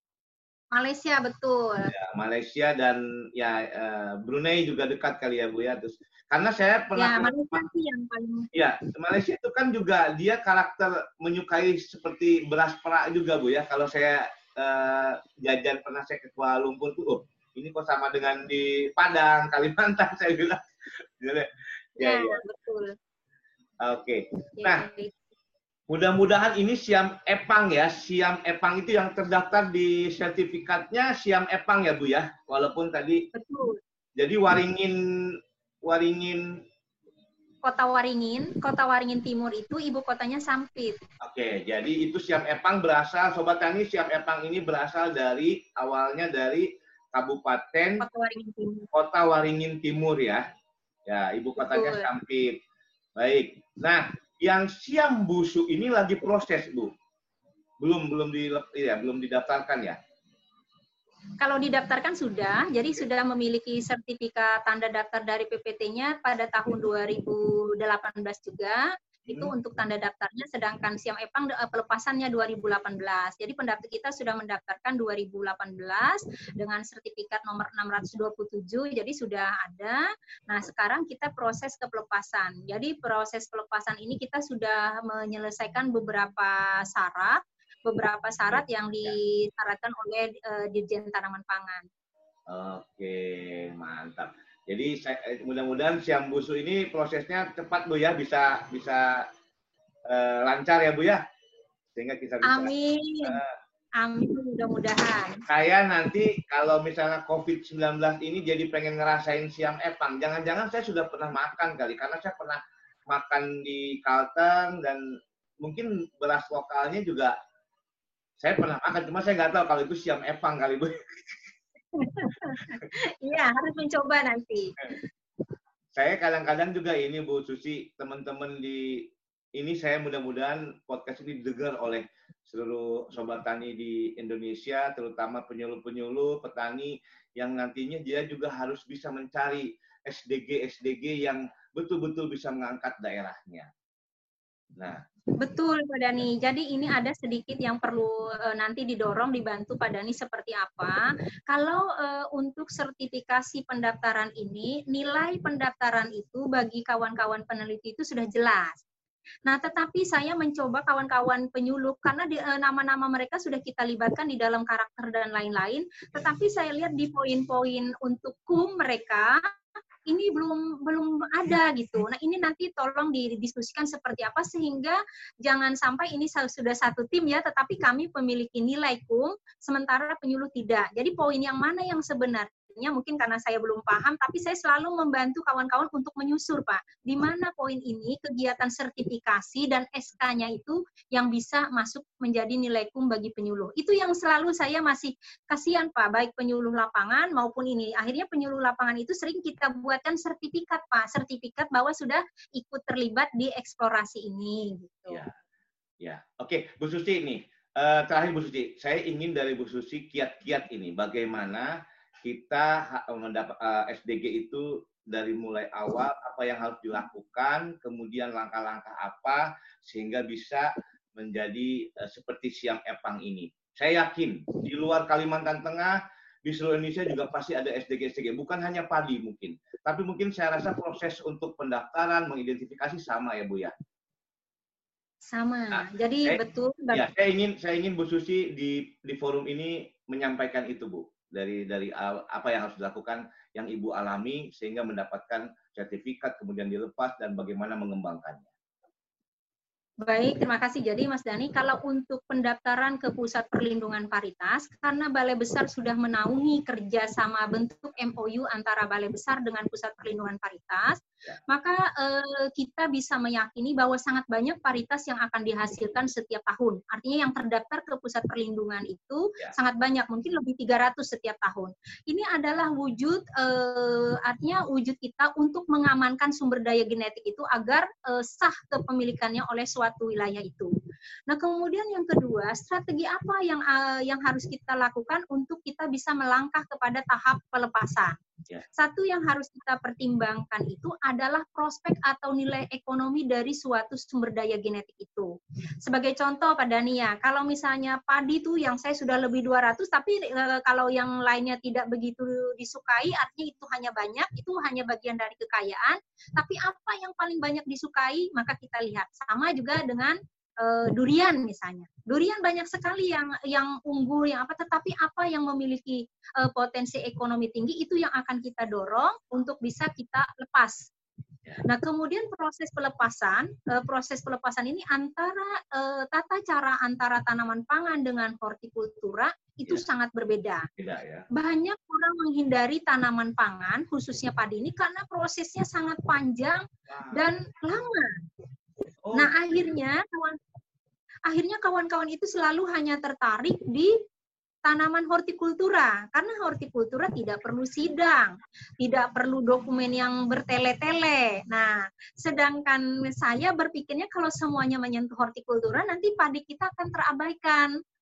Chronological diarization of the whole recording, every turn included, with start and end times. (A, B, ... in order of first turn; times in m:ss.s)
0:00.7-0:01.9 A
0:01.9-0:07.6 B
0:07.0-0:08.5 A
0:08.5-0:20.6 B
0:21.2-0:22.4 B
0:22.0-0:22.9 A
0:23.8-0:24.8 B
0:24.6-0:25.1 A
0:25.9-0:33.3 B
0:33.3-0:33.8 A
0:34.2-0:36.6 B
0:37.6-0:41.0 A
0:41.2-0:48.1 B
0:48.0-0:48.9 A
0:48.9-0:50.4 B
0:51.1-0:52.6 B
0:51.6-0:52.1 A
0:53.2-0:56.9 B
0:57.8-1:00.0 B
1:01.4-1:31.9 A
1:09.3-1:09.5 B
1:28.5-1:29.2 B
1:32.5-1:39.3 B
1:40.1-1:41.2 B
1:42.0-1:42.7 B
1:42.4-1:43.4 A
1:43.2-1:43.5 B
1:44.0-1:45.4 A
1:45.5-1:55.0 B
1:55.6-1:57.3 B
1:58.4-2:01.0 B
2:01.9-2:04.9 A
2:06.0-2:09.1 B
2:09.6-2:23.7 B
2:25.4-2:38.8 A
2:39.4-2:49.5 A
2:50.1-3:25.2 A
3:25.1-3:25.3 B
3:26.0-3:31.7 B
3:32.2-3:53.7 B
3:55.3-3:57.0 A
3:55.7-3:56.4 B
3:56.9-4:08.5 B
4:10.0-4:40.7 A
4:41.3-4:48.2 A
4:48.8-4:55.3 A
4:55.8-5:20.9 A
5:21.6-5:30.7 A
5:30.8-5:31.3 B
5:31.3-5:38.2 A
5:36.9-5:37.2 B
5:39.0-5:39.5 B
5:39.2-5:40.4 A
5:41.3-5:43.9 A
5:44.6-5:57.7 A